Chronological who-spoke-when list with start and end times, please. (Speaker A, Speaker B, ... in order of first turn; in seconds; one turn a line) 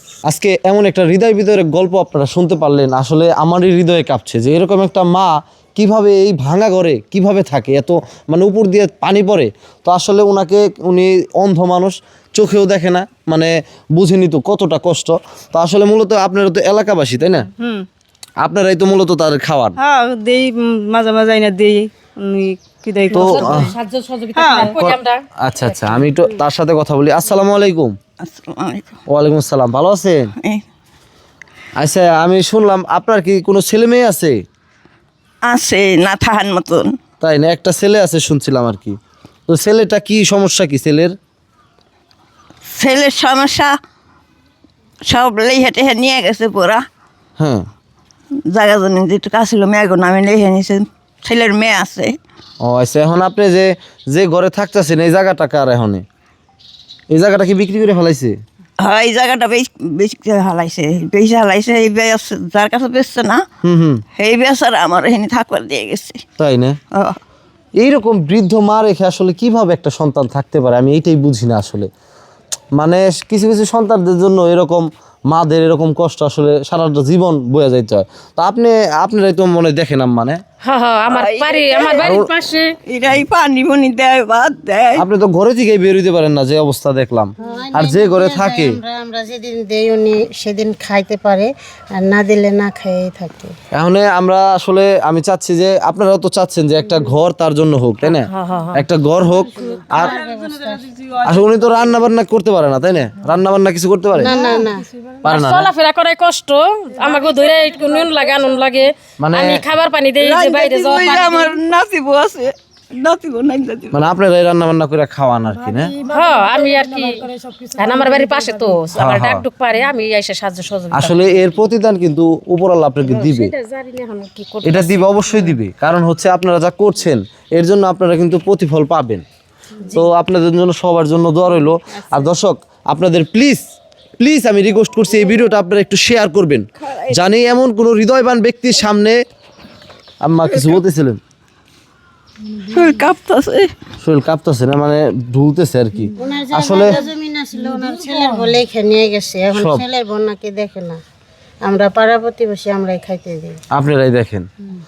Speaker A: 0.3-17.5
Speaker B: 17.6-17.8
Speaker A: 18.4-19.8
Speaker B: 19.8-23.7
Speaker A: 23.1-23.7
Speaker C: 23.1-26.1
Speaker B: 24.3-24.7
Speaker A: 24.6-27.9
Speaker D: 28.2-28.9
Speaker A: 29.1-30.3
Speaker A: 31.8-34.4
Speaker D: 35.5-36.9
Speaker A: 37.2-39.0
Speaker A: 39.5-41.1
Speaker D: 42.7-43.7
Speaker D: 45.0-46.8
Speaker A: 47.4-47.7
Speaker D: 48.5-52.1
Speaker A: 52.6-56.0
Speaker A: 57.1-58.4
Speaker D: 58.8-63.4
Speaker A: 63.6-64.0
Speaker D: 64.2-66.2
Speaker A: 66.4-66.8
Speaker A: 67.8-71.9
Speaker A: 72.8-80.4
Speaker C: 80.6-82.7
Speaker D: 81.1-82.1
Speaker A: 82.0-82.3
Speaker D: 82.9-85.0
Speaker A: 85.0-88.8
Speaker E: 87.4-93.5
Speaker A: 93.7-100.2
Speaker C: 98.0-98.8
Speaker E: 99.7-100.9
Speaker A: 101.2-104.5
Speaker E: 104.2-104.9
Speaker A: 105.2-105.7
Speaker C: 105.2-111.6
Speaker A: 109.2-109.6
Speaker D: 110.2-114.0
Speaker A: 113.9-115.9
Speaker B: 115.9-118.7
Speaker C: 116.0-121.5
Speaker A: 118.9-119.4
Speaker A: 120.9-123.5
Speaker C: 123.0-125.6
Speaker A: 124.6-129.2
Speaker A: 129.9-133.6
Speaker A: 134.2-139.2
Speaker D: 136.8-137.2
Speaker A: 140.2-141.2
Speaker D: 140.5-140.8
Speaker D: 142.7-143.7
Speaker A: 144.0-147.0
Speaker E: 146.2-151.0
Speaker A: 149.5-149.8
Speaker E: 151.6-153.6
Speaker A: 153.7-154.5